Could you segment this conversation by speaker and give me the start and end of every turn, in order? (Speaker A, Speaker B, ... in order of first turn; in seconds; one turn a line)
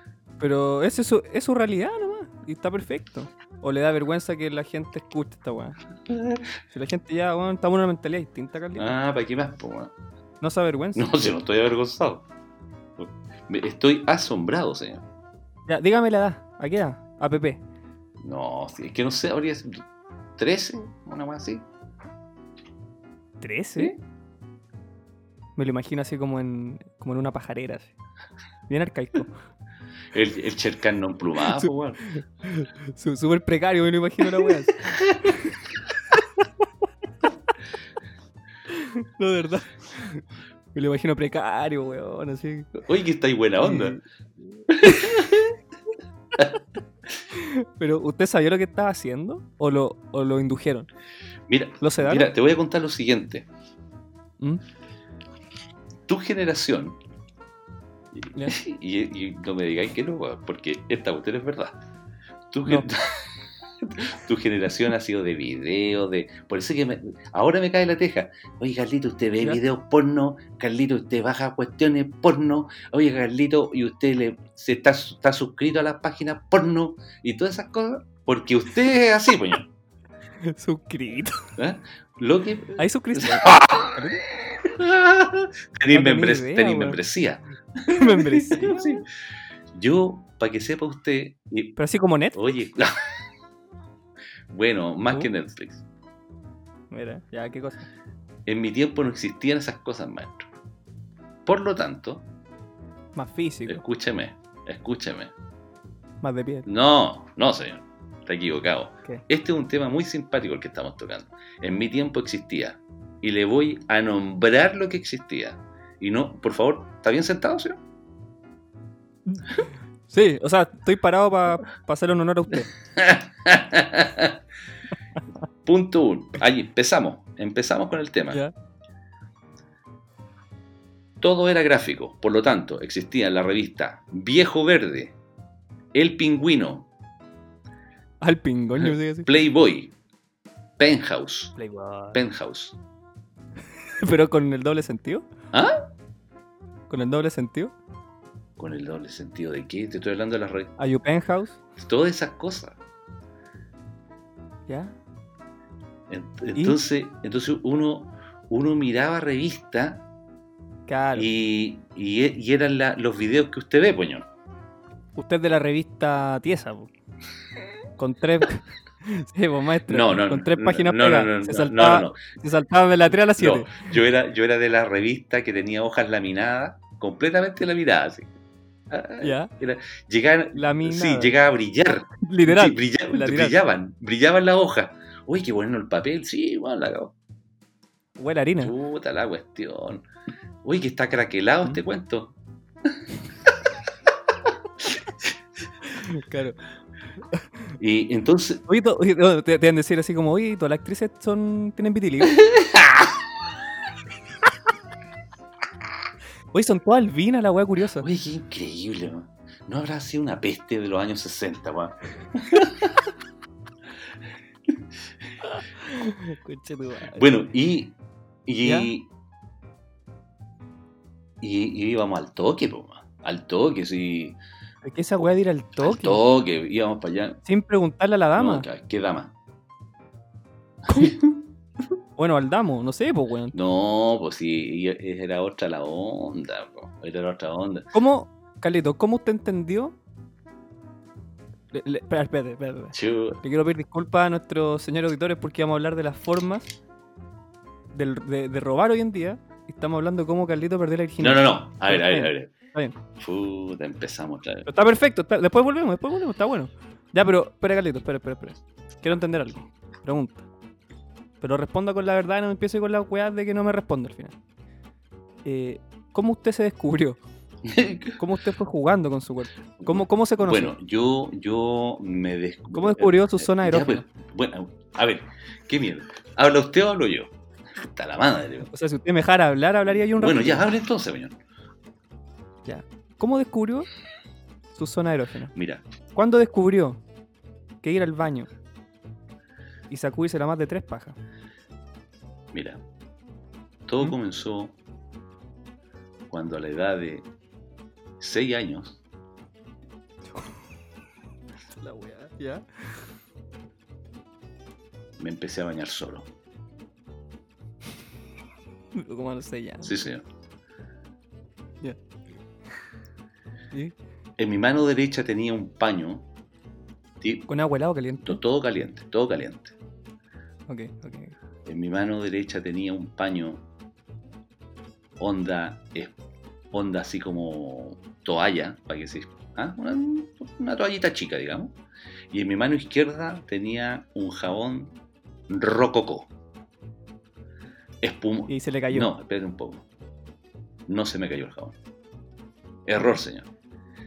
Speaker A: 0.4-5.8
Speaker B: 6.1-6.5
Speaker A: 6.7-8.9
Speaker B: 8.8-9.9
Speaker A: 10.4-11.1
Speaker B: 10.9-12.2
Speaker B: 13.0-15.0
Speaker A: 15.7-17.6
Speaker B: 18.2-19.8
Speaker B: 20.4-21.6
Speaker A: 23.4-23.9
Speaker A: 25.6-27.9
Speaker A: 28.7-29.3
Speaker B: 30.1-32.1
Speaker A: 31.4-35.4
Speaker B: 34.9-35.4
Speaker A: 36.1-36.5
Speaker A: 38.7-42.8
Speaker B: 42.8-44.0
Speaker A: 43.6-44.0
Speaker B: 44.7-45.5
Speaker A: 44.8-45.2
Speaker A: 47.3-50.9
Speaker B: 51.5-53.5
Speaker A: 51.8-52.3
Speaker B: 56.1-57.0
Speaker B: 58.1-61.8
Speaker B: 62.5-63.3
Speaker B: 63.8-79.7
Speaker A: 80.4-81.4
Speaker B: 81.6-84.0
Speaker A: 82.8-84.2
Speaker B: 84.5-89.1
Speaker A: 85.9-87.0
Speaker A: 87.9-88.9
Speaker B: 89.7-91.8
Speaker A: 91.8-92.4
Speaker B: 92.3-93.1
Speaker B: 94.5-95.8
Speaker A: 96.9-97.9
Speaker B: 98.5-100.5
Speaker B: 101.5-102.3
Speaker A: 103.1-103.8
Speaker B: 103.7-105.3
Speaker A: 106.2-106.7
Speaker B: 106.7-117.8
Speaker A: 119.3-122.7
Speaker B: 122.9-124.4
Speaker B: 125.6-128.4
Speaker B: 131.2-135.2
Speaker B: 135.9-136.9
Speaker A: 138.2-139.3
Speaker B: 138.8-139.9
Speaker B: 140.8-141.6
Speaker A: 141.6-142.2
Speaker B: 142.1-142.8
Speaker A: 143.8-145.2
Speaker B: 145.5-145.9
Speaker A: 146.9-147.7
Speaker B: 148.6-150.8
Speaker A: 150.8-151.6
Speaker B: 151.8-152.8
Speaker A: 154.7-155.0
Speaker B: 156.1-160.1
Speaker A: 160.9-161.3
Speaker B: 161.1-164.3
Speaker A: 165.2-166.9
Speaker A: 168.0-174.0
Speaker B: 169.9-172.2
Speaker B: 173.3-178.3
Speaker B: 178.9-187.1
Speaker A: 179.2-179.5
Speaker A: 180.6-181.4
Speaker A: 182.2-183.6
Speaker A: 188.2-188.8
Speaker B: 188.6-190.1
Speaker B: 190.6-192.3
Speaker A: 195.8-196.6
Speaker B: 197.8-198.7
Speaker A: 198.7-202.4
Speaker B: 202.4-203.1
Speaker A: 206.5-208.1
Speaker B: 208.0-213.0
Speaker A: 215.4-217.3
Speaker B: 217.1-219.1
Speaker A: 218.7-218.9
Speaker B: 221.4-224.4
Speaker A: 224.8-226.2
Speaker B: 225.8-227.4
Speaker A: 227.4-228.7
Speaker B: 228.4-229.3
Speaker B: 230.8-231.4
Speaker A: 230.9-231.2
Speaker A: 232.2-233.6
Speaker B: 233.5-237.9
Speaker A: 237.9-240.0
Speaker A: 241.7-246.8
Speaker B: 242.9-243.4
Speaker A: 247.9-253.0
Speaker B: 251.2-252.5
Speaker B: 253.2-254.7
Speaker A: 254.7-260.5
Speaker A: 261.4-264.4
Speaker A: 265.4-267.2
Speaker B: 267.6-268.2
Speaker A: 268.2-270.7
Speaker B: 269.8-278.7
Speaker A: 272.7-274.0
Speaker A: 278.7-280.7
Speaker B: 279.9-281.4
Speaker A: 282.6-283.9
Speaker A: 284.7-285.5
Speaker B: 285.6-285.8
Speaker A: 286.1-287.0
Speaker A: 287.8-288.5
Speaker A: 289.9-291.2
Speaker B: 292.5-292.8
Speaker B: 293.9-294.8
Speaker B: 296.3-297.3
Speaker B: 298.2-299.0
Speaker A: 300.3-300.6
Speaker A: 301.7-303.1
Speaker B: 305.2-306.3
Speaker A: 308.9-309.9
Speaker B: 309.8-310.2
Speaker B: 314.4-316.3
Speaker B: 317.2-317.5
Speaker A: 317.5-318.4
Speaker B: 318.2-319.7
Speaker A: 320.7-321.4
Speaker B: 321.7-323.6
Speaker B: 325.2-326.2
Speaker B: 326.7-331.8
Speaker B: 332.3-335.0
Speaker B: 335.5-336.3
Speaker B: 338.0-339.9
Speaker A: 338.5-339.1
Speaker B: 340.9-341.8
Speaker B: 342.9-343.5